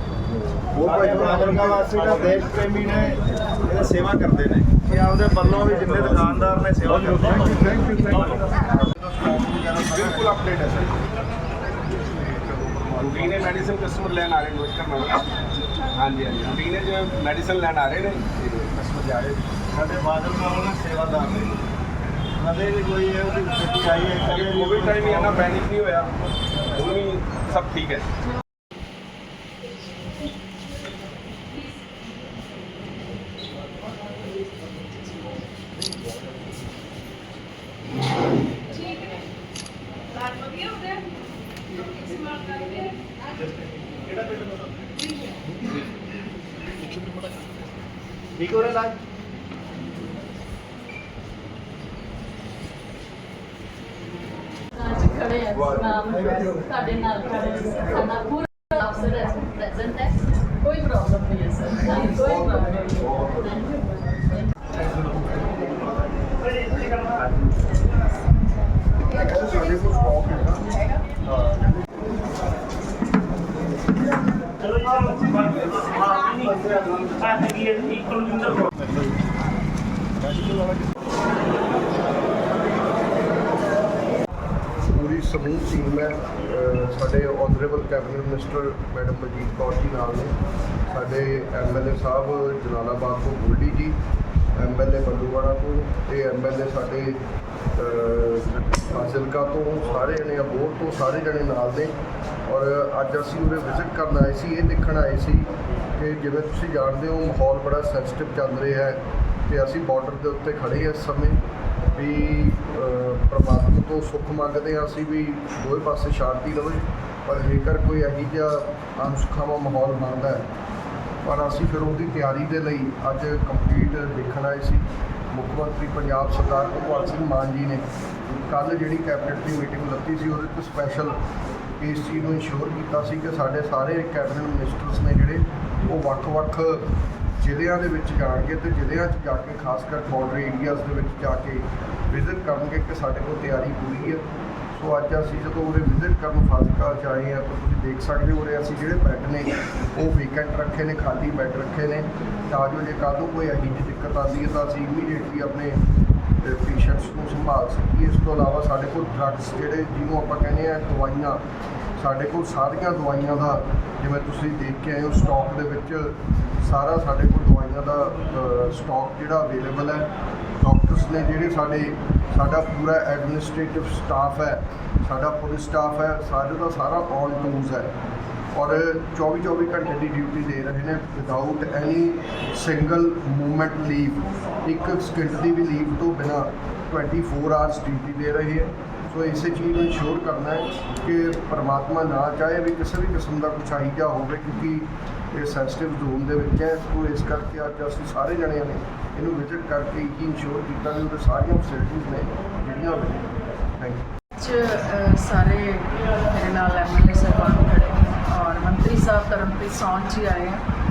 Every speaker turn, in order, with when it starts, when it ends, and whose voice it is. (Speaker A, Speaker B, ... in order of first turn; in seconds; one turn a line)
Speaker A: 0.7-1.9
Speaker B: 0.8-7.8
Speaker A: 7.3-10.3
Speaker C: 9.6-10.9
Speaker C: 12.9-15.3
Speaker C: 15.9-19.4
Speaker B: 19.7-21.5
Speaker B: 22.4-25.5
Speaker C: 24.2-26.1
Speaker C: 26.7-28.1
Speaker D: 38.7-39.2
Speaker D: 40.1-43.1
Speaker B: 48.4-49.0
Speaker E: 54.8-63.8
Speaker A: 55.5-55.9
Speaker A: 62.1-63.3
Speaker A: 69.1-70.7
Speaker A: 71.3-71.6
Speaker C: 75.2-78.5
Speaker B: 80.2-80.8
Speaker A: 84.9-90.3
Speaker A: 90.9-94.0
Speaker A: 94.5-97.2
Speaker A: 97.8-102.0
Speaker A: 102.5-111.4
Speaker A: 112.0-120.5
Speaker A: 121.2-127.9
Speaker A: 128.4-131.2
Speaker A: 131.8-155.8
Speaker A: 156.4-161.4
Speaker A: 162.0-177.9
Speaker A: 178.5-204.1
Speaker D: 204.4-210.6